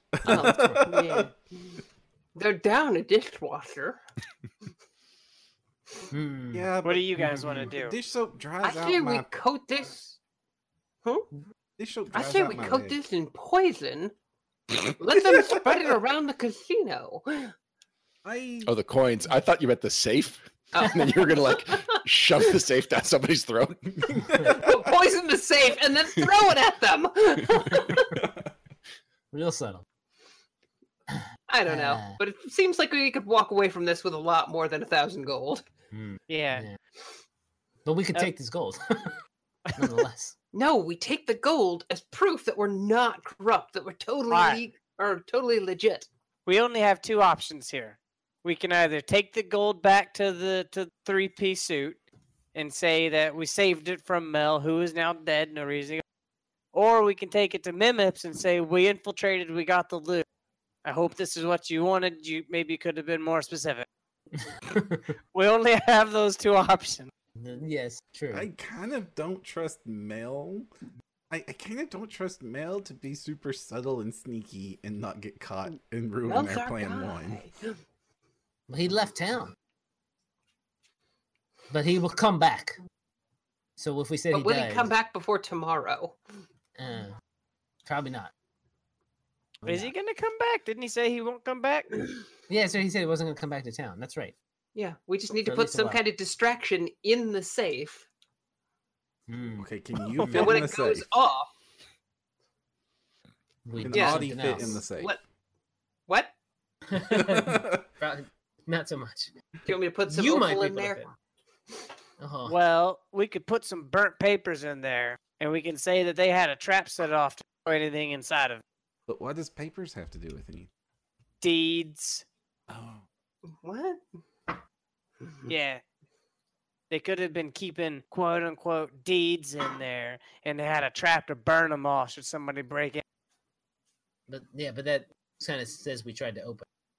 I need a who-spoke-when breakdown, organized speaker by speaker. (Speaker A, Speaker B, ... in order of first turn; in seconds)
Speaker A: 0.1-1.3, 6.5-9.3, 11.8-13.0, 15.3-15.7, 18.2-18.7, 24.1-24.7, 28.2-28.5, 68.3-70.7, 71.3-77.4, 99.6-101.1, 103.8-105.2, 107.0-107.8, 119.1-120.7, 122.7-123.0
Speaker B: 0.2-1.8, 2.4-4.0, 8.6-10.2, 12.1-14.1, 14.8-17.5, 20.7-22.0, 24.5-28.2, 31.5-35.6, 40.5-46.1, 76.3-77.8, 84.3-86.2, 94.8-98.1, 100.3-101.5, 103.9-104.3, 105.0-105.2, 106.1-106.3, 109.7-111.0, 123.5-124.0
Speaker C: 0.3-0.9, 6.1-6.7, 29.3-29.9, 31.1-32.2, 35.9-36.8, 37.9-39.1, 39.8-40.3, 64.7-65.1, 67.4-68.5, 78.7-79.5, 81.7-82.8, 83.8-84.9, 86.8-87.2, 87.9-88.3, 89.6-89.9, 92.5-94.3, 95.5-96.0, 99.3-99.7, 100.2-100.6, 103.7-104.9, 106.9-109.3, 110.1-111.1, 112.2-112.5, 134.3-136.7
Speaker D: 6.8-8.0, 36.3-36.7, 39.7-40.0, 44.3-44.6, 46.5-52.0, 52.5-56.0, 56.7-60.2, 60.9-63.9, 65.3-67.1, 89.7-92.1, 112.5-118.6, 121.4-122.2, 125.5-125.8, 126.9-133.0
Speaker E: 18.6-24.3